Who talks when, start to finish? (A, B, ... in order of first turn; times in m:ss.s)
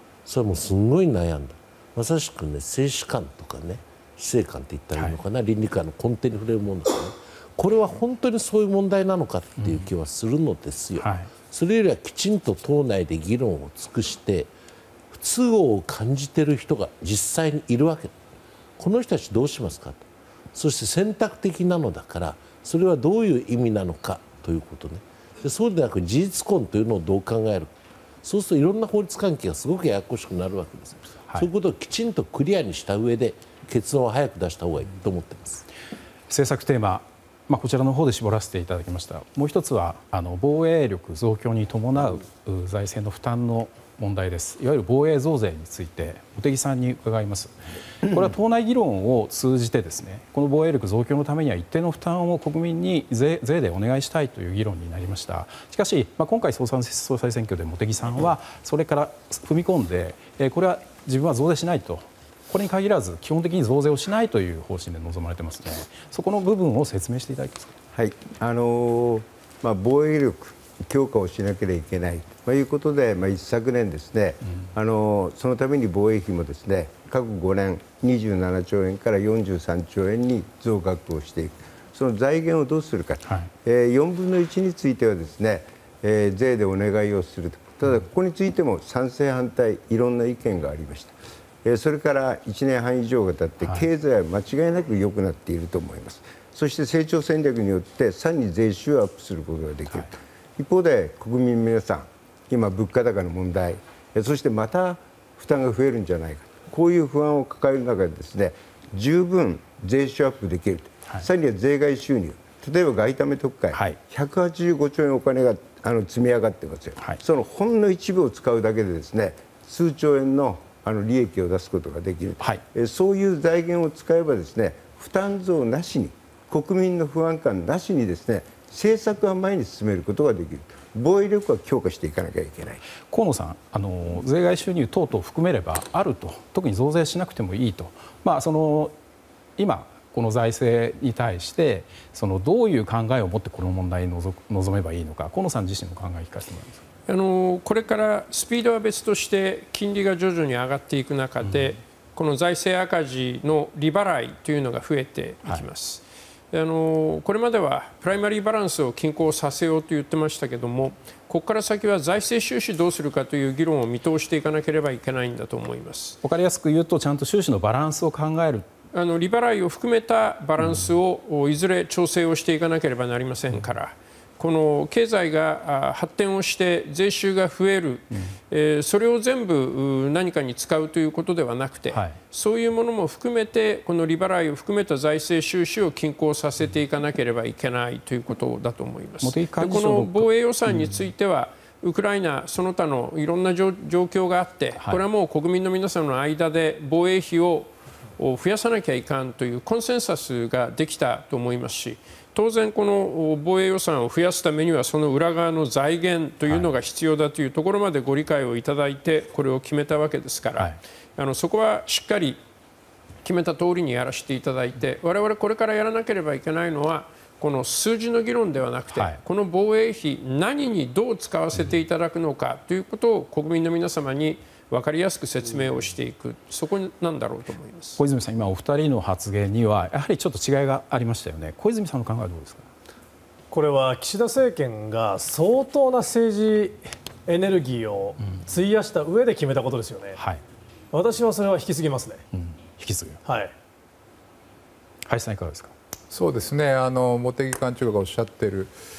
0:00.2-0:14.5 A
0:09.6-0:09.9 B
0:11.0-0:11.3 B
0:15.1-0:18.2 A
0:18.8-0:35.6 A
0:36.3-1:07.7 B
1:07.9-2:12.8 C
1:23.2-1:23.5 B
1:33.6-1:33.9 B
1:53.7-1:54.0 B
2:13.1-2:18.9 B
2:19.6-2:26.8 B
2:27.1-2:46.2 D
2:31.4-2:31.8 B
2:46.2-2:48.7 B
2:48.9-3:32.4 D
2:50.6-2:50.9 B
3:01.9-3:02.2 B
3:09.2-3:11.1 B
3:14.8-3:15.0 B
3:26.4-3:26.7 B
3:33.2-3:48.0 D
3:38.9-3:39.2 B
3:48.0-3:52.7 B
3:53.5-4:00.2 E
4:00.2-4:00.4 B
4:00.9-4:02.2 E
4:02.3-4:03.2 B
4:03.2-4:03.5 E
4:05.0-4:05.7 B
4:06.1-4:08.7 F